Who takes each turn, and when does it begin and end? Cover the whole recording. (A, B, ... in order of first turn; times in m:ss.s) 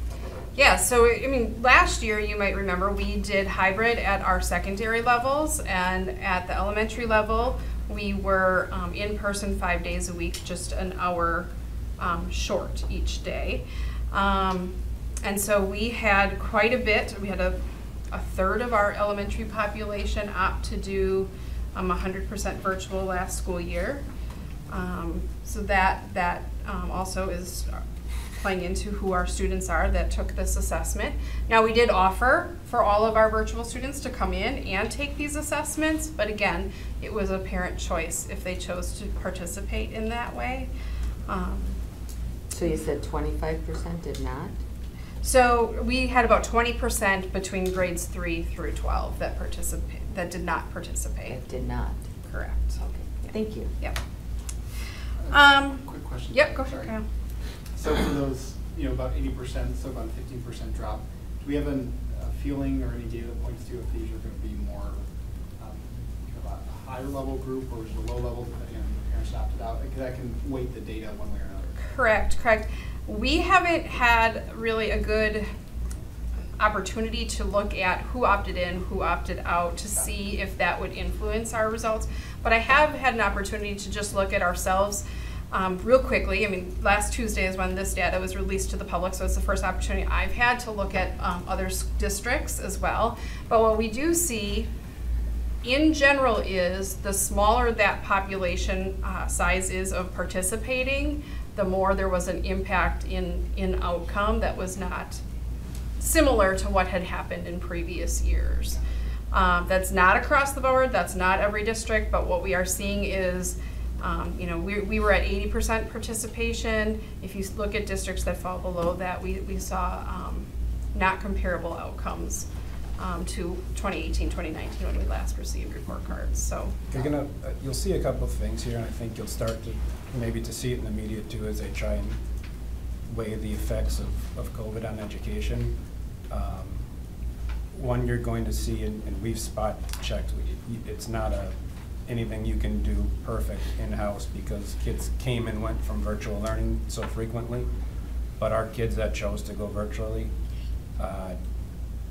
0:00.6-0:17.6 A
0:18.1-0:24.0 A
0:24.7-0:27.8 A
0:28.4-0:40.7 A
0:41.3-0:41.8 A
0:42.5-0:44.6 B
0:45.2-0:51.4 A
0:51.3-0:52.0 B
0:52.3-0:54.0 A
0:52.8-0:53.7 B
0:55.2-0:57.0 C
0:55.3-0:57.0 A
0:57.6-1:05.0 C
1:05.6-1:11.8 C
1:11.8-1:15.5 A
1:16.6-1:34.7 A
1:35.6-1:45.2 A
1:46.0-1:48.8 A
1:49.3-2:07.1 A
2:06.9-2:12.2 D
2:13.1-2:15.7 D
2:16.3-2:16.9 D
2:17.7-2:21.5 D
2:22.0-2:27.7 D
2:28.4-2:30.3 D
2:31.0-2:31.4 D